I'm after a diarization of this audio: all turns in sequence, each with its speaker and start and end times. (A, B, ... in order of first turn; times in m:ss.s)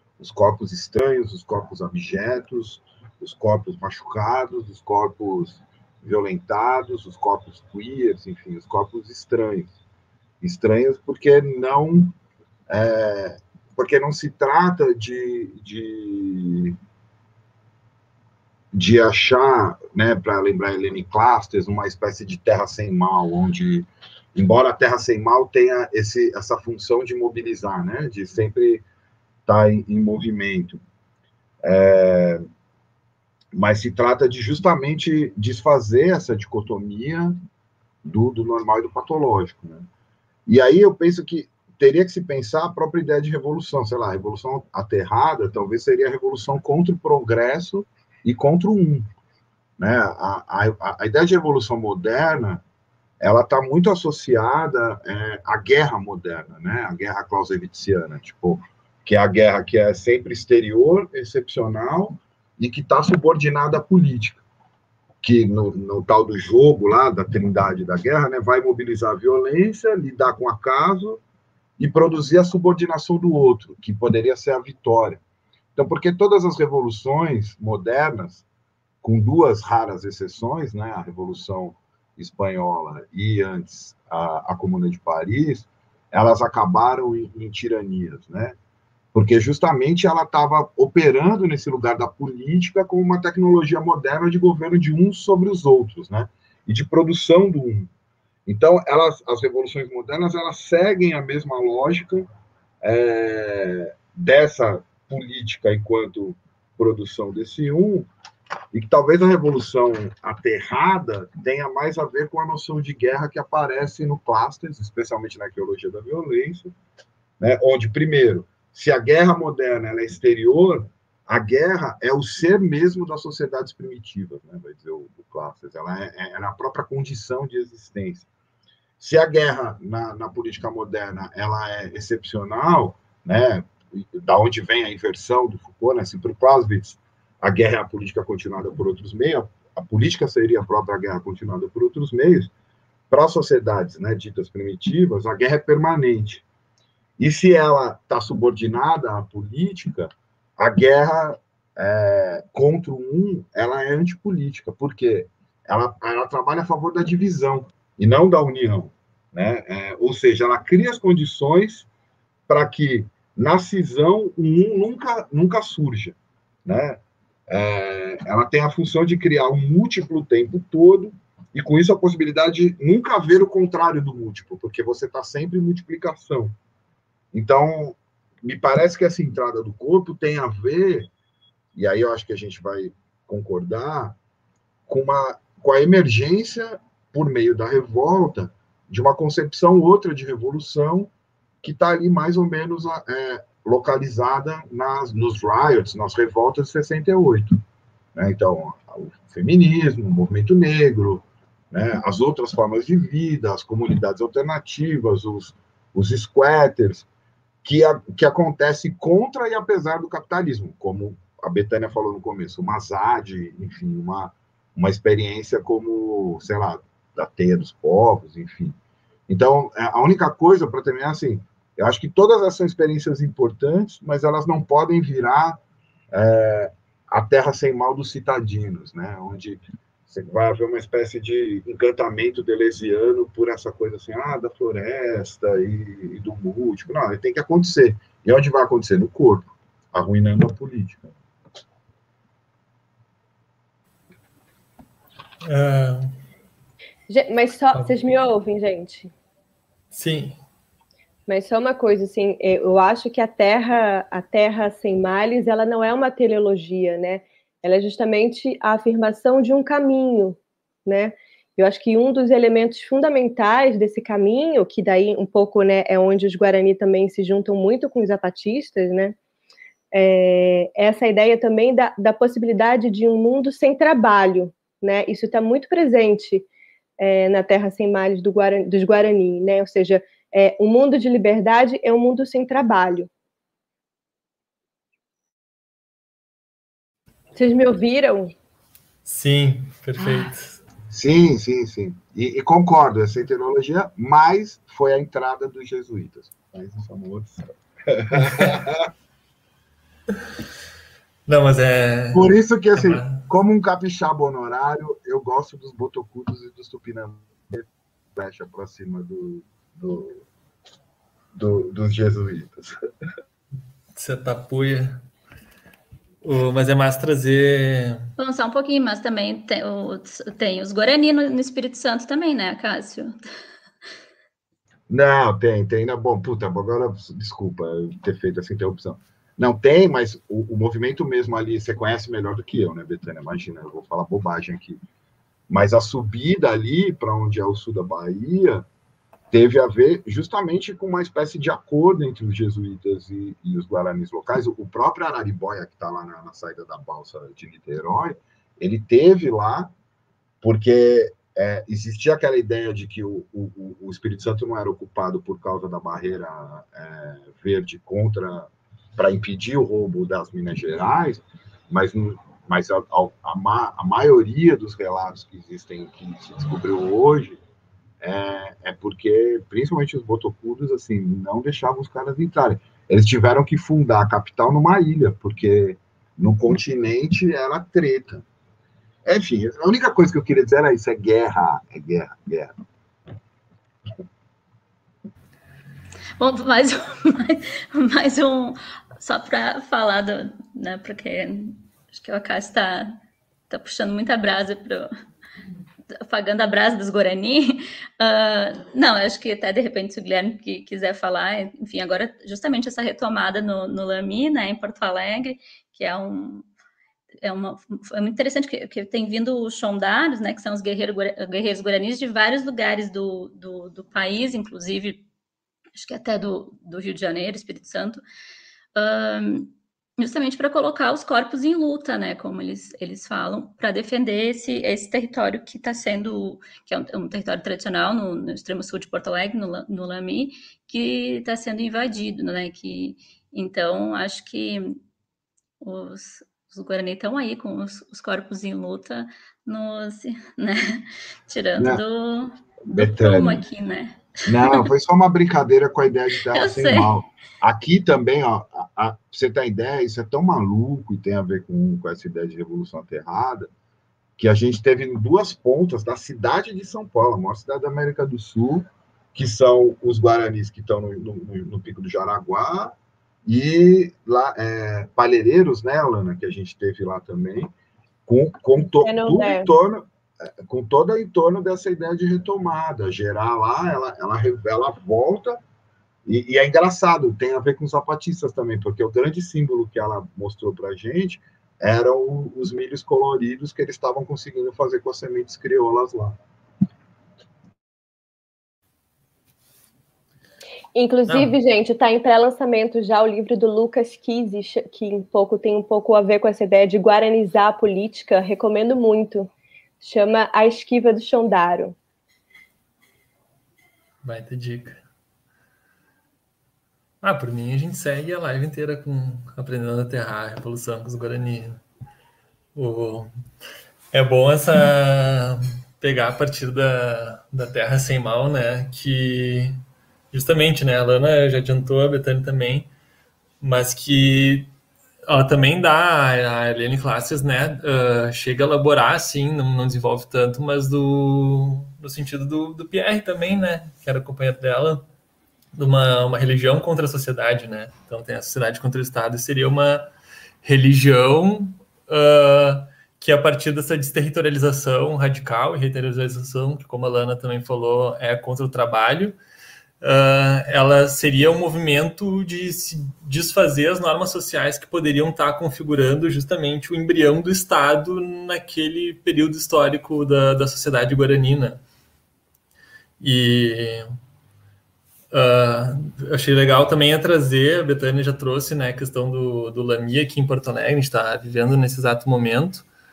0:00.2-0:09.7 A
0:10.4-0:12.1 A
0:12.7-0:16.8 A
0:18.7-0:28.8 A
0:29.4-0:30.8 A
0:31.6-0:32.5 A
0:33.5-0:37.4 A
0:38.0-0:39.9 A
0:40.5-0:49.1 A
0:49.8-0:52.6 A
0:53.2-1:04.4 A
1:05.2-1:11.2 A
1:11.8-1:15.2 A
1:15.8-1:18.4 A
1:19.0-1:28.6 A
1:29.1-1:37.9 A
1:38.5-1:42.3 A
1:42.8-1:48.1 A
1:48.7-1:56.7 A
1:57.4-2:08.3 A
2:09.0-2:22.5 A
2:23.1-2:26.4 A
2:27.2-2:41.9 A
2:42.5-2:56.6 A
2:57.3-3:01.1 A
3:01.7-3:04.2 A
3:04.9-3:11.1 A
3:11.6-3:17.6 A
3:18.1-3:27.0 A
3:27.6-3:38.8 A
3:39.3-3:45.6 A
3:46.1-4:01.1 A
4:05.4-4:06.1 B
4:07.1-4:09.1 C
4:09.9-4:10.4 B
4:11.3-4:29.2 C
4:29.9-4:36.4 C
4:37.0-4:43.1 C
4:47.3-4:48.3 C
4:49.0-4:50.6 B
4:50.9-4:58.9 A
5:01.3-5:03.2 B
5:02.1-5:10.2 A
5:11.3-5:12.7 A
5:13.9-5:15.0 B
5:16.2-5:18.1 B
5:18.2-5:23.2 D
5:24.9-5:34.8 A
5:35.5-5:38.6 A
5:39.3-5:49.7 A
5:50.4-6:07.4 A
6:08.0-6:18.2 A
6:19.0-6:22.5 A
6:26.2-6:33.0 D
6:33.5-6:34.9 D
6:36.0-6:46.5 D
6:47.2-6:55.0 D
6:55.7-6:58.0 D
6:58.7-7:14.8 D
7:15.6-7:24.7 D
7:22.6-7:23.4 A
7:24.2-7:33.5 A
7:26.3-7:27.0 D
7:34.2-7:47.5 A
7:48.0-7:49.9 A
7:48.8-7:49.5 C
7:50.4-7:55.4 A
7:56.0-8:06.2 A
8:10.7-8:19.3 C
8:11.1-8:11.3 B
8:19.8-8:21.7 C
8:24.0-8:24.8 B
8:27.0-8:31.6 B
8:32.5-8:33.1 B
8:33.9-8:39.6 B
8:40.1-8:42.7 B
8:43.4-8:44.5 B
8:45.1-8:54.8 B
8:55.5-8:59.9 B
9:00.4-9:09.2 B
9:09.8-9:21.6 B
9:23.0-9:23.8 B
9:25.1-9:32.6 B